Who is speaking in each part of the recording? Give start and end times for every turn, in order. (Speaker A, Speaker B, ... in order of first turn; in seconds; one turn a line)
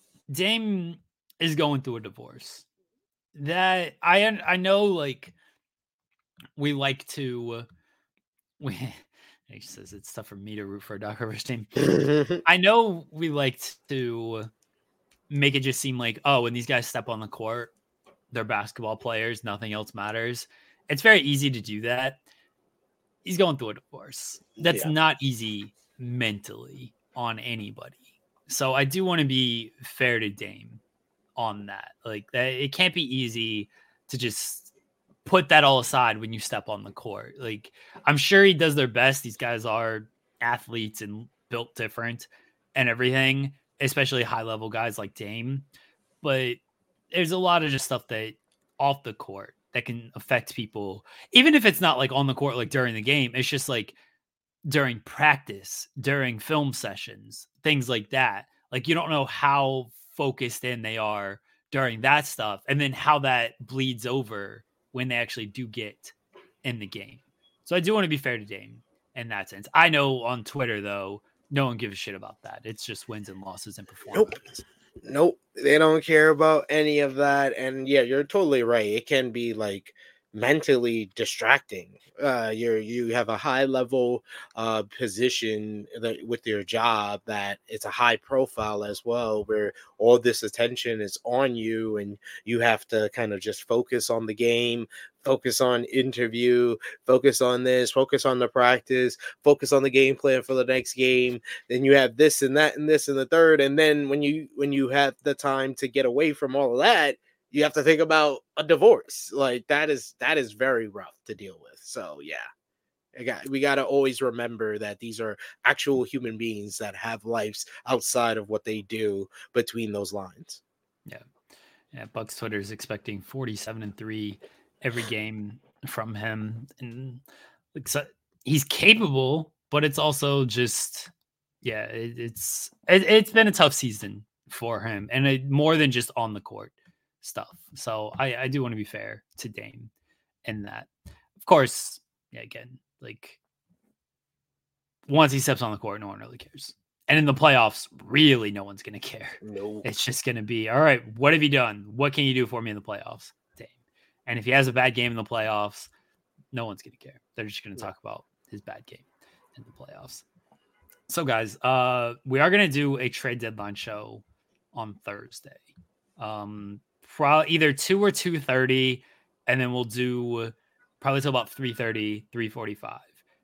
Speaker A: 0.3-2.6
Speaker A: 3.3-5.3
Speaker A: 6.5-7.7
Speaker A: 8.6-14.5
Speaker B: 11.9-12.4
Speaker A: 15.3-17.7
Speaker A: 18.3-22.2
Speaker A: 23.2-30.8
Speaker B: 24.6-24.9
Speaker A: 31.4-34.7
Speaker A: 35.2-45.6
Speaker A: 46.2-46.6
Speaker A: 47.1-54.0
Speaker A: 54.6-74.6
Speaker B: 74.1-74.4
Speaker B: 75.0-112.5
Speaker B: 113.1-120.6
Speaker A: 121.9-127.2
Speaker A: 127.7-131.1
Speaker A: 131.6-139.9
Speaker A: 140.4-140.9
Speaker A: 141.4-143.4
Speaker A: 145.1-153.7
Speaker B: 149.4-149.8
Speaker A: 154.2-155.9
Speaker A: 156.5-160.2
Speaker A: 161.1-165.7
Speaker A: 166.2-173.1